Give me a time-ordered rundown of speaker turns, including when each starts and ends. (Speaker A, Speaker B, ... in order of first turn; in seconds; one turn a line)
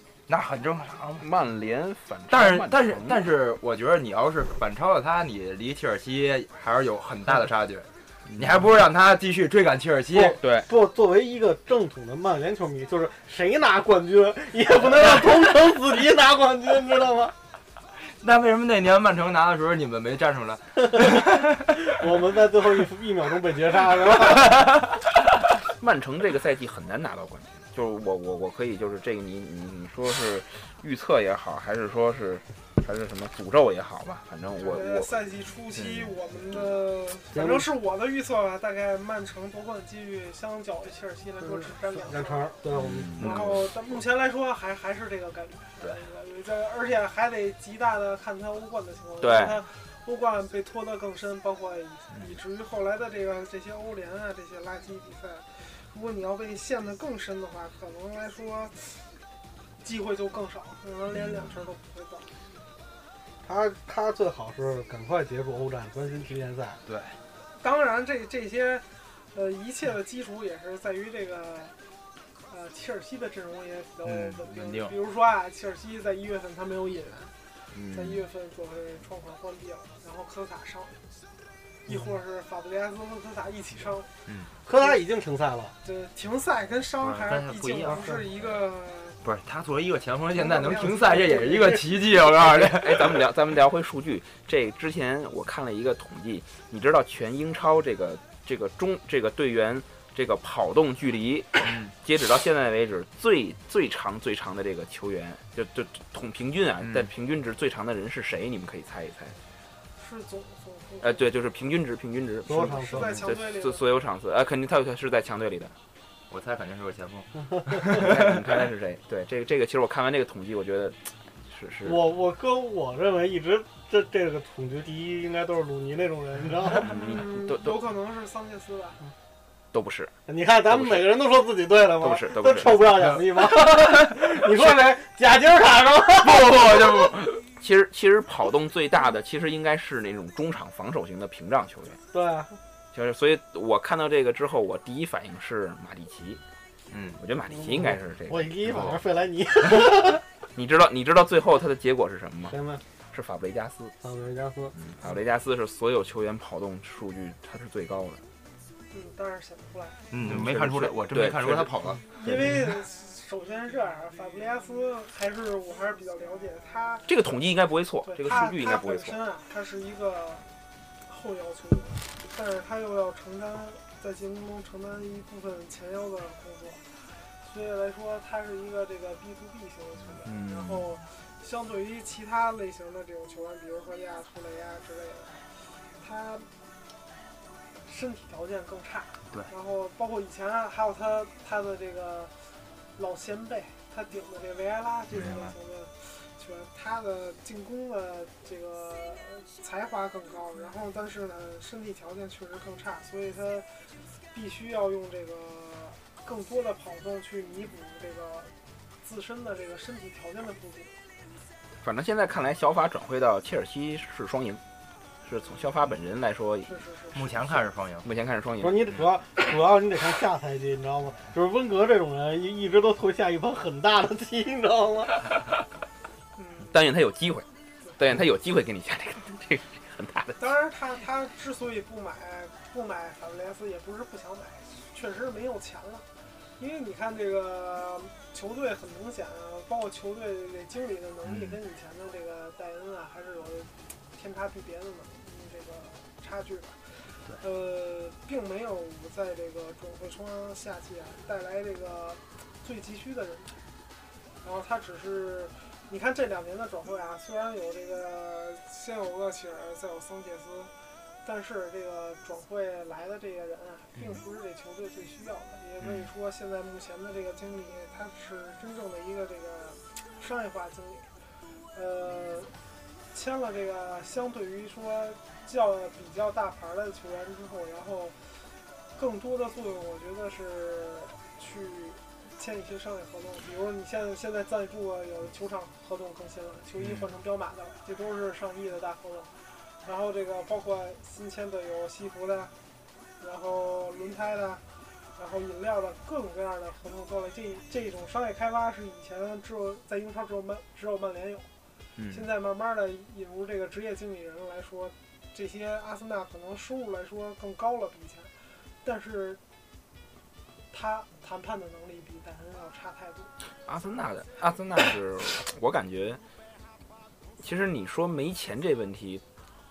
Speaker A: 0.3-1.2
Speaker B: 1.2-3.2
Speaker A: 2.3-10.4
Speaker B: 8.3-8.6
Speaker C: 10.1-17.3
Speaker B: 10.4-10.7
Speaker A: 18.2-21.9
Speaker C: 21.9-24.7
Speaker A: 24.2-25.0
Speaker B: 25.7-35.1
Speaker D: 34.6-42.6
Speaker A: 35.8-36.0
Speaker C: 37.3-37.6
Speaker C: 41.4-43.2
Speaker B: 42.7-43.7
Speaker D: 43.1-59.0
Speaker B: 49.2-49.6
Speaker D: 59.8-62.3
Speaker C: 63.4-66.8
Speaker A: 66.8-67.2
Speaker D: 67.6-71.7
Speaker D: 72.5-77.3
Speaker A: 74.0-74.9
Speaker B: 77.8-78.2
Speaker D: 77.9-81.0
Speaker D: 81.9-84.1
Speaker C: 84.6-85.7
Speaker D: 85.8-89.2
Speaker A: 87.0-88.0
Speaker C: 87.9-88.2
Speaker A: 89.2-93.2
Speaker D: 90.3-91.8
Speaker C: 91.0-91.9
Speaker B: 92.3-109.4
Speaker A: 101.6-101.9
Speaker A: 106.8-107.1
Speaker D: 110.0-111.3
Speaker B: 111.0-115.7
Speaker C: 112.5-113.2
Speaker D: 112.5-113.8
Speaker A: 116.3-118.4
Speaker B: 117.8-122.0
Speaker C: 121.8-126.9
Speaker B: 126.8-127.8
Speaker D: 126.8-129.0
Speaker B: 129.7-130.1
Speaker C: 130.3-136.6
Speaker B: 130.7-131.1
Speaker B: 132.0-132.9
Speaker A: 133.0-134.2
Speaker B: 136.4-142.0
Speaker A: 136.5-137.2
Speaker C: 142.1-142.5
Speaker B: 142.9-146.4
Speaker A: 146.9-147.2
Speaker B: 147.2-148.5
Speaker C: 147.5-150.2
Speaker A: 148.7-149.0
Speaker B: 150.5-152.5
Speaker C: 152.5-152.8
Speaker B: 153.1-153.9
Speaker C: 154.0-154.7
Speaker B: 154.8-158.2
Speaker D: 158.9-160.0
Speaker A: 160.1-162.0
Speaker B: 160.2-161.8
Speaker D: 162.1-167.1
Speaker B: 167.1-169.2
Speaker D: 168.1-170.4
Speaker D: 171.1-176.8
Speaker D: 177.4-185.4
Speaker B: 180.2-180.8
Speaker D: 186.0-186.5
Speaker D: 187.8-192.3
Speaker D: 193.0-203.7
Speaker A: 195.2-195.5
Speaker D: 204.3-210.9
Speaker B: 211.8-214.6
Speaker B: 215.2-216.7
Speaker D: 216.7-217.5
Speaker A: 217.1-218.1
Speaker B: 218.0-218.8
Speaker C: 218.6-225.2
Speaker D: 226.4-226.7
Speaker B: 226.6-230.4
Speaker D: 230.4-236.0
Speaker D: 236.6-246.8
Speaker A: 241.2-241.6
Speaker D: 247.4-253.5
Speaker D: 254.4-260.7
Speaker D: 261.2-271.1
Speaker D: 271.7-272.5
Speaker D: 273.1-278.2
Speaker D: 278.9-289.3
Speaker D: 289.8-292.5
Speaker D: 293.2-294.6
Speaker D: 295.2-301.5
Speaker B: 301.9-302.2
Speaker D: 302.1-308.3
Speaker D: 308.8-309.4
Speaker D: 310.7-313.3
Speaker B: 313.6-316.2
Speaker B: 317.4-319.2